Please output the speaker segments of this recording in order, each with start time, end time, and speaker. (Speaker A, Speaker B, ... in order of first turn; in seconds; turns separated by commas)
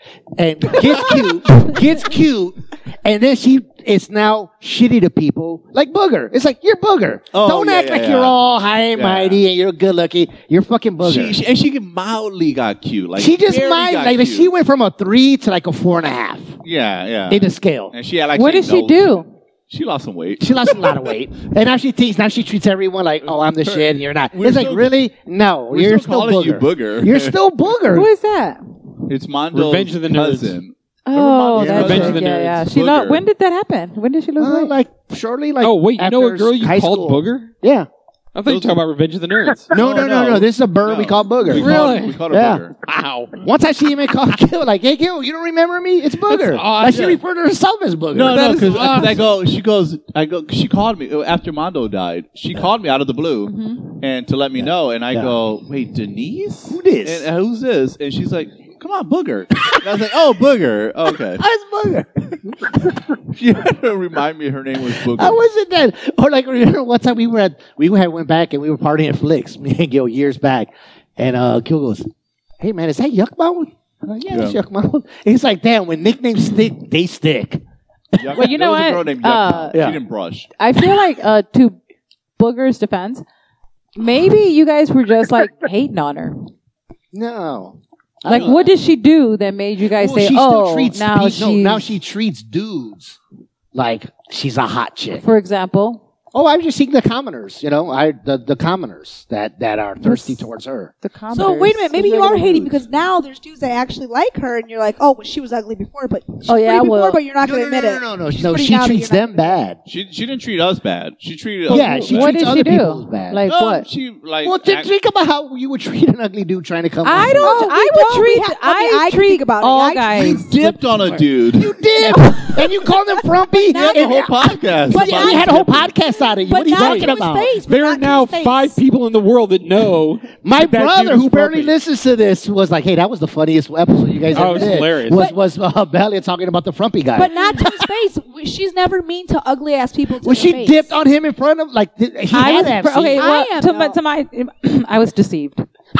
Speaker A: 0.4-11.4, Speaker B: 7.3-8.3, Speaker B: 8.9-9.4, Speaker B: 11.0-14.5, Speaker A: 13.2-16.6, Speaker B: 16.6-21.1, Speaker A: 17.3-17.9, Speaker C: 18.3-19.3, Speaker A: 20.4-28.1, Speaker B: 23.5-24.9, Speaker B: 25.7-27.4, Speaker C: 27.9-28.6, Speaker B: 29.1-33.2, Speaker D: 29.5-30.6, Speaker C: 31.1-34.7, Speaker A: 31.5-32.2, Speaker D: 31.6-32.7, Speaker A: 34.4-37.9, Speaker D: 35.6-37.5, Speaker D: 38.3-39.8, Speaker B: 38.5-38.8, Speaker A: 39.7-42.6, Speaker B: 39.7-42.8, Speaker D: 41.5-42.2, Speaker D: 42.8-43.4, Speaker A: 43.4-49.2, Speaker D: 46.2-47.2, Speaker B: 46.9-47.2, Speaker B: 48.1-61.4, Speaker D: 48.3-49.3, Speaker C: 53.5-53.8, Speaker A: 54.6-55.3, Speaker A: 56.7-57.3, Speaker A: 61.4-63.0, Speaker B: 63.3-65.4, Speaker A: 64.9-72.1, Speaker A: 72.6-77.6, Speaker B: 74.3-74.6, Speaker B: 78.2-80.5, Speaker C: 78.3-79.8, Speaker A: 79.7-80.0, Speaker C: 80.6-81.8, Speaker C: 82.4-83.2, Speaker C: 84.0-86.5, Speaker A: 87.1-88.7, Speaker C: 88.3-91.9, Speaker B: 88.3-88.7, Speaker A: 89.9-93.2, Speaker A: 93.7-95.2, Speaker C: 95.2-96.0, Speaker A: 96.3-100.9, Speaker C: 101.0-102.8, Speaker E: 101.3-109.5, Speaker C: 106.5-107.2, Speaker A: 107.4-109.8, Speaker B: 109.9-112.4, Speaker A: 111.7-113.4, Speaker C: 111.7-113.8, Speaker B: 113.5-114.9, Speaker A: 114.4-117.7, Speaker C: 117.0-120.5, Speaker E: 117.4-120.4, Speaker B: 120.1-121.8, Speaker A: 121.5-127.5, Speaker E: 122.0-123.0, Speaker E: 123.5-125.9, Speaker B: 123.7-125.9, Speaker E: 126.4-128.8, Speaker D: 126.8-127.0, Speaker D: 127.6-131.7, Speaker A: 130.4-137.3, Speaker D: 134.3-135.2, Speaker E: 137.1-141.0, Speaker A: 140.2-143.3, Speaker C: 142.3-145.7, Speaker E: 143.2-144.0